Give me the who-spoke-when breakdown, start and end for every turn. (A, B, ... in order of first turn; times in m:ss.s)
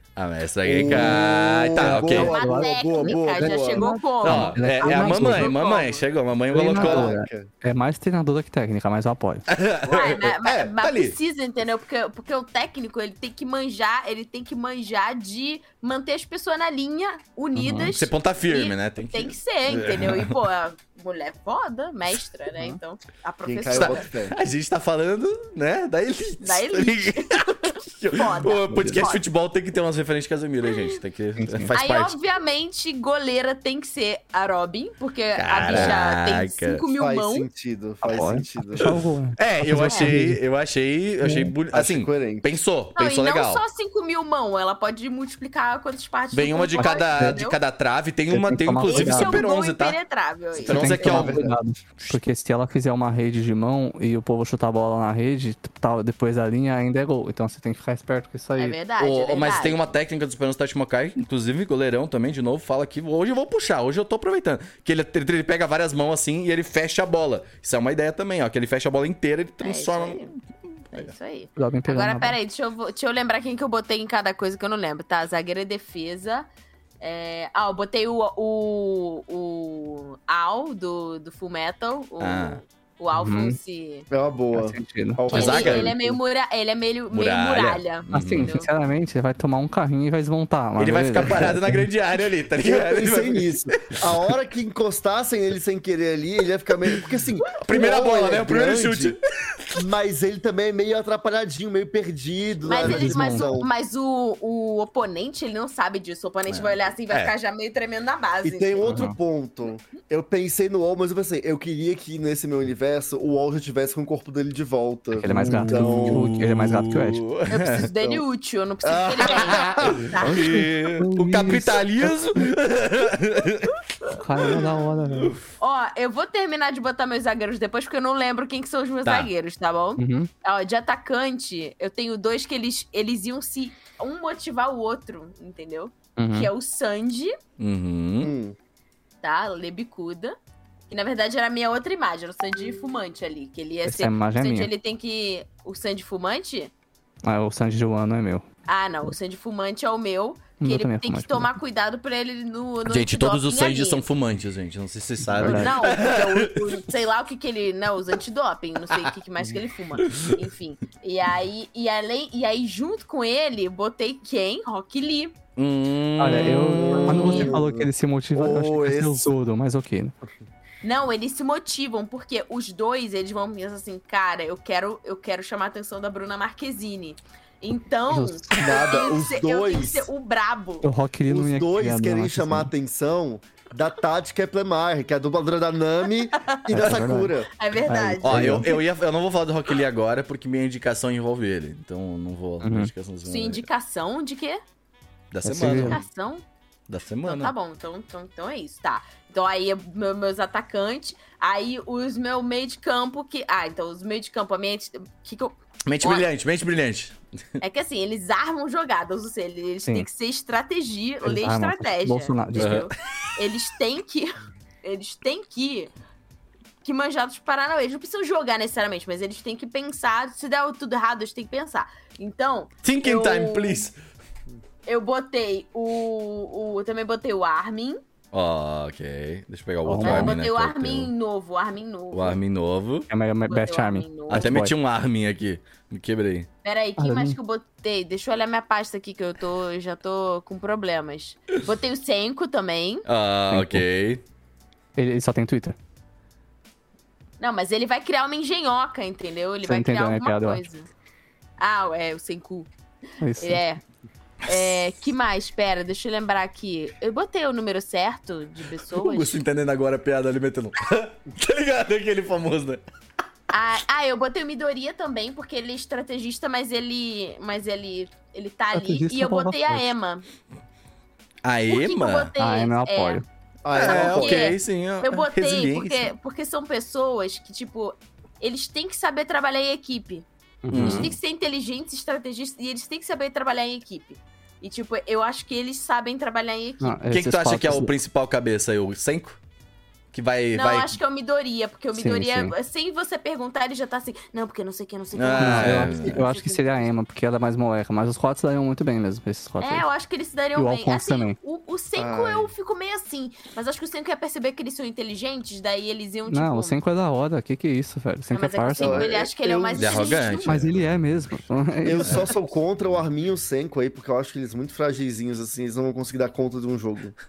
0:00.2-0:02.3 A
0:00.6-0:03.9 B
0:00.9-0:01.2 C
0:01.8-0:05.5 C
0:02.2-0:06.1 D
0:04.2-0:07.2 A
0:06.5-0:09.5 C
0:06.6-0:07.5 B
0:09.5-0:11.2 A
0:09.9-0:24.0 D
0:17.6-0:17.9 C
0:17.9-0:20.4 A
0:23.5-0:24.4 B
0:23.7-0:32.2 A
0:26.4-0:29.2 D
0:28.7-0:29.0 C
0:30.6-0:31.0 D
0:31.4-0:31.7 C
0:31.7-0:37.5 D
0:35.4-0:36.8 A
0:37.0-0:38.9 B
0:38.0-0:40.4 C
0:38.8-0:43.6 A
0:41.2-0:41.5 C
0:41.7-0:42.5 B
0:43.0-0:47.6 D
0:46.3-0:50.0 A
0:46.8-0:47.4 C
0:48.3-0:49.4 C
0:48.9-0:51.3 D
0:50.6-0:52.2 A
0:50.7-0:58.8 C
0:51.1-0:51.6 B
0:58.6-0:59.9 D
0:59.0-1:11.1 A
1:09.6-1:10.3 D
1:10.9-1:16.5 D
1:11.6-1:12.4 C
1:17.0-1:24.1 D
1:22.2-1:22.6 A
1:23.1-1:23.6 C
1:24.1-1:26.2 B
1:24.5-1:25.8 C
1:25.3-1:28.7 D
1:25.3-1:25.9 A
1:27.1-1:28.5 A
1:28.1-1:31.9 C
1:30.8-1:34.1 A
1:32.6-1:39.2 B
1:37.6-1:39.2 A
1:39.8-1:43.7 B
1:42.6-1:49.0 D
1:42.8-1:43.5 C
1:46.5-1:47.3 A
1:48.4-1:56.4 B
1:48.8-1:49.2 C
1:55.2-1:57.2 C
1:55.3-1:57.9 A
1:57.5-2:00.7 D
1:58.8-2:00.0 B
1:59.5-2:03.8 A
2:00.0-2:02.5 C
2:04.1-2:05.4 C
2:04.4-2:05.4 A
2:05.6-2:17.4 D
2:09.0-2:09.3 A
2:10.0-2:10.3 C
2:16.2-2:16.5 C
2:17.6-2:18.3 A
2:18.2-2:18.6 B
2:19.2-2:20.4 D
2:20.9-2:26.7 D
2:23.9-2:24.7 C
2:27.2-2:28.5 C
2:28.7-2:34.0 D
2:30.6-2:31.5 C
2:32.9-2:36.8 A
2:35.3-2:35.7 C
2:35.4-2:45.4 D
2:40.0-2:40.4 A
2:45.6-2:47.5 A
2:46.2-2:50.2 C
2:46.7-2:49.3 B
2:47.1-2:47.6 D
2:50.8-3:00.9 D
2:58.1-2:58.9 C
2:58.6-3:00.1 B
3:00.8-3:02.7 C
3:01.3-3:07.5 B
3:06.3-3:06.7 D
3:06.7-3:08.7 C
3:07.6-3:08.8 D
3:08.2-3:13.6 A
3:12.6-3:12.9 C
3:13.2-3:14.6 D
3:15.3-3:16.0 A
3:15.4-3:16.0 C
3:15.8-3:16.4 D
3:16.9-3:17.5 A
3:17.3-3:26.3 D
3:25.9-3:27.2 A
3:27.6-3:35.9 D
3:31.2-3:32.8 C
3:32.6-3:32.9 A
3:36.8-3:43.8 D
3:42.8-3:44.0 A
3:44.9-3:48.0 D
3:48.3-3:51.1 A
3:49.9-3:52.4 D
3:49.9-3:50.4 C
3:52.1-3:53.1 A
3:53.1-3:54.7 C
3:53.5-3:54.5 D
3:54.3-3:56.5 A
3:56.6-4:03.0 D
3:57.0-3:57.4 C
4:03.1-4:04.2 A
4:03.5-4:03.8 C
4:05.0-4:05.8 C
4:07.4-4:10.9 D
4:09.6-4:10.6 C
4:11.6-4:12.7 D
4:13.2-4:13.6 C
4:13.4-4:13.8 D
4:14.4-4:19.4 D
4:18.9-4:22.8 A
4:23.5-4:30.3 D
4:28.7-4:29.9 C
4:31.4-4:32.3 A
4:31.7-4:33.2 D
4:32.4-4:33.2 C
4:33.6-4:34.6 B
4:33.7-4:36.1 A
4:33.8-4:47.0 D
4:40.6-4:41.1 C
4:40.7-4:41.2 A
4:46.8-4:47.9 C
4:47.1-4:49.4 A
4:50.1-4:51.0 A
4:50.5-4:56.9 D
4:51.9-4:52.6 C
4:55.2-4:56.2 A
4:55.4-4:59.8 C
4:59.6-5:06.8 D
5:00.6-5:01.4 C
5:02.0-5:02.5 B
5:06.3-5:09.1 C
5:08.3-5:10.7 D
5:08.8-5:10.3 B
5:09.8-5:11.2 A
5:10.5-5:12.2 C
5:11.8-5:17.2 B
5:12.0-5:12.3 A